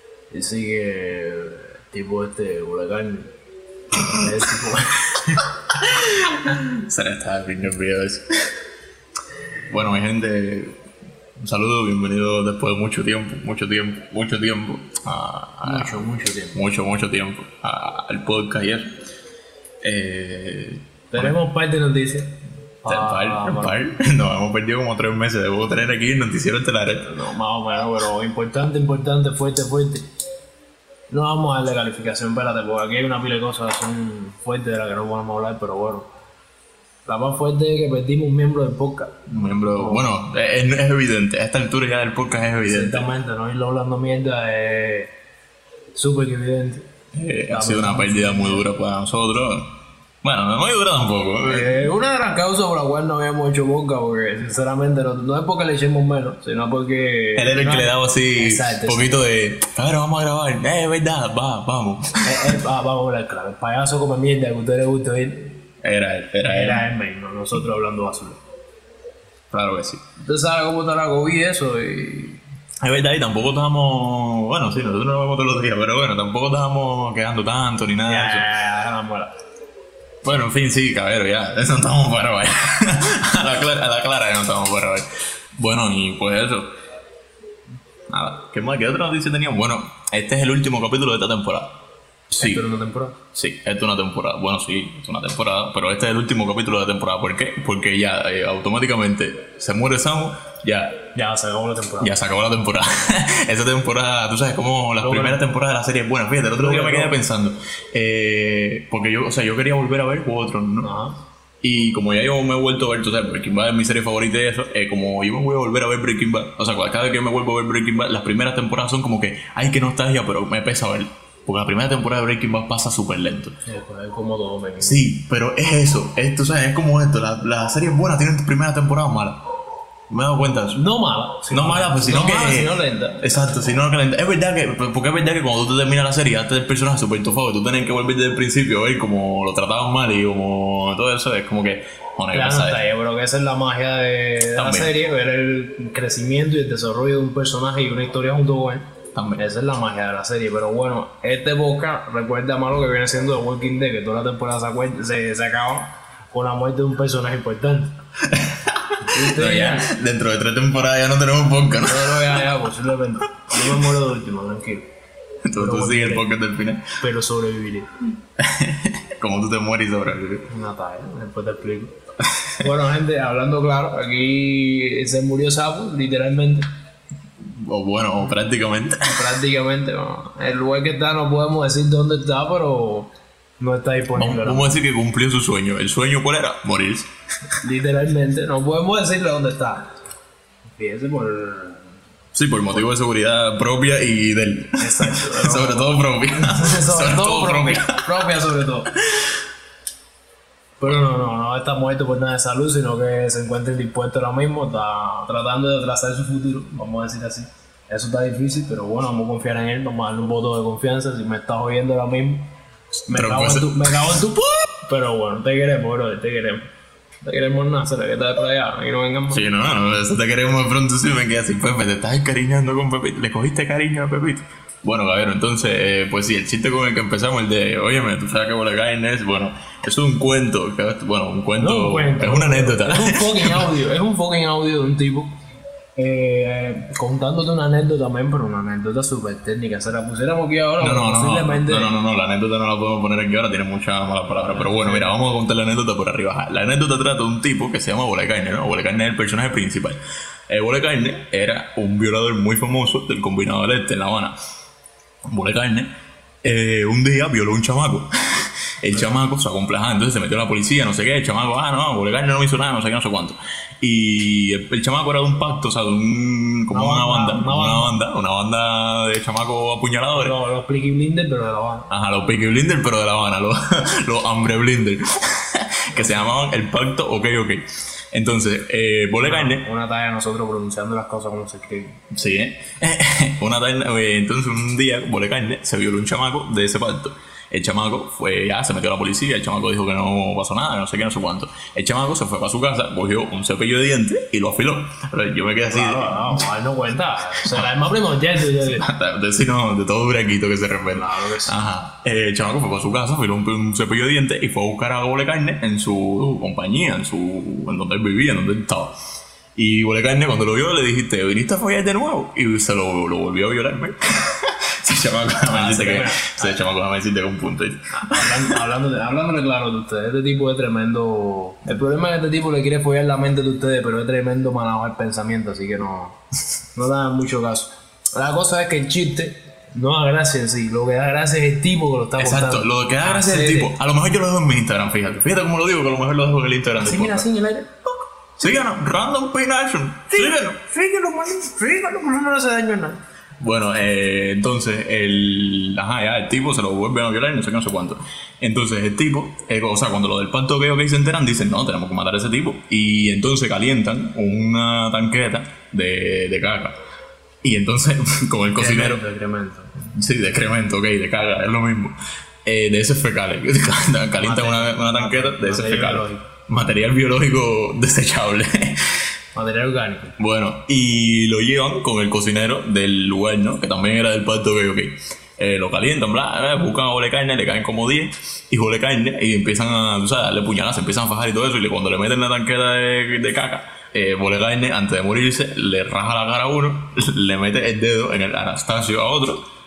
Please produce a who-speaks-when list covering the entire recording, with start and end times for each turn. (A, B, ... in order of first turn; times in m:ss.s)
0:00.3-0:03.3 A
0:03.9-0:05.5 A
0:05.8-0:08.3 B
0:09.7-0:10.7 B
0:11.4-0:18.9 B
0:15.6-0:16.6 A
0:19.8-0:21.3 B
0:21.1-0:23.8 A
0:22.8-0:27.1 B
0:27.0-0:30.1 A
0:31.1-0:36.1 A
0:37.0-0:40.0 A
0:39.3-0:43.1 B
0:42.6-0:45.1 A
0:45.9-0:46.9 A
0:47.1-0:49.7 B
0:47.5-0:48.7 A
0:50.2-0:51.9 B
0:51.4-0:59.2 A
0:57.4-1:02.6 B
1:02.2-1:05.6 A
1:05.8-1:06.8 B
1:06.4-1:08.4 A
1:09.5-1:10.0 B
1:10.2-1:12.4 A
1:12.8-1:18.4 B
1:18.0-1:19.3 A
1:20.2-1:25.0 B
1:25.6-1:26.7 B
1:28.1-1:31.7 B
1:32.3-1:32.6 B
1:32.4-1:33.2 A
1:33.3-1:41.0 B
1:41.1-1:42.1 A
1:42.0-1:50.9 B
1:45.0-1:45.4 A
1:46.5-1:47.2 A
1:50.8-1:51.2 A
1:51.6-2:03.6 B
2:03.6-2:05.1 A
2:04.8-2:09.4 B
2:10.1-2:10.8 B
2:10.4-2:13.6 A
2:11.5-2:22.8 B
2:22.3-2:38.0 A
2:24.6-2:24.9 B
2:29.1-2:29.4 B
2:38.2-2:42.5 B
2:39.0-2:39.9 A
2:41.8-2:44.9 A
2:45.4-2:46.9 B
2:45.5-2:46.3 A
2:47.0-2:47.9 A
2:48.4-2:50.5 B
2:50.5-2:51.9 A
2:52.6-2:56.7 A
2:57.4-2:59.1 B
2:59.0-3:04.8 A
3:04.1-3:07.1 B
3:07.6-3:09.9 A
3:10.7-3:11.9 A
3:12.3-3:18.2 B
3:14.8-3:18.9 A
3:20.8-3:32.5 A
3:33.1-3:36.7 A
3:33.1-3:34.1 B
3:37.2-3:39.4 A
3:39.3-3:53.7 B
3:51.6-3:55.3 A
3:56.0-4:01.9 A
4:00.8-4:14.4 B
4:04.4-4:05.2 A
4:15.3-4:15.9 B
4:16.4-4:30.4 B
4:26.7-4:28.0 A
4:30.1-4:31.9 A
4:31.9-4:39.6 B
4:35.9-4:36.3 A
4:39.2-4:42.0 A
4:42.1-4:56.5 B
4:55.7-4:58.8 A
4:57.4-4:57.8 B
4:58.6-5:09.0 B
5:00.8-5:01.6 A
5:09.6-5:18.6 B
5:15.5-5:16.7 A
5:17.9-5:26.2 A
5:26.7-5:33.7 A
5:32.2-5:37.2 B
5:36.8-5:37.9 A
5:38.4-5:40.6 B
5:40.1-5:43.0 A
5:43.4-5:56.7 B
5:57.4-5:59.0 B
5:58.5-5:59.7 A
5:59.9-6:08.9 B
6:04.2-6:06.3 A
6:09.3-6:10.1 A
6:10.2-6:29.4 B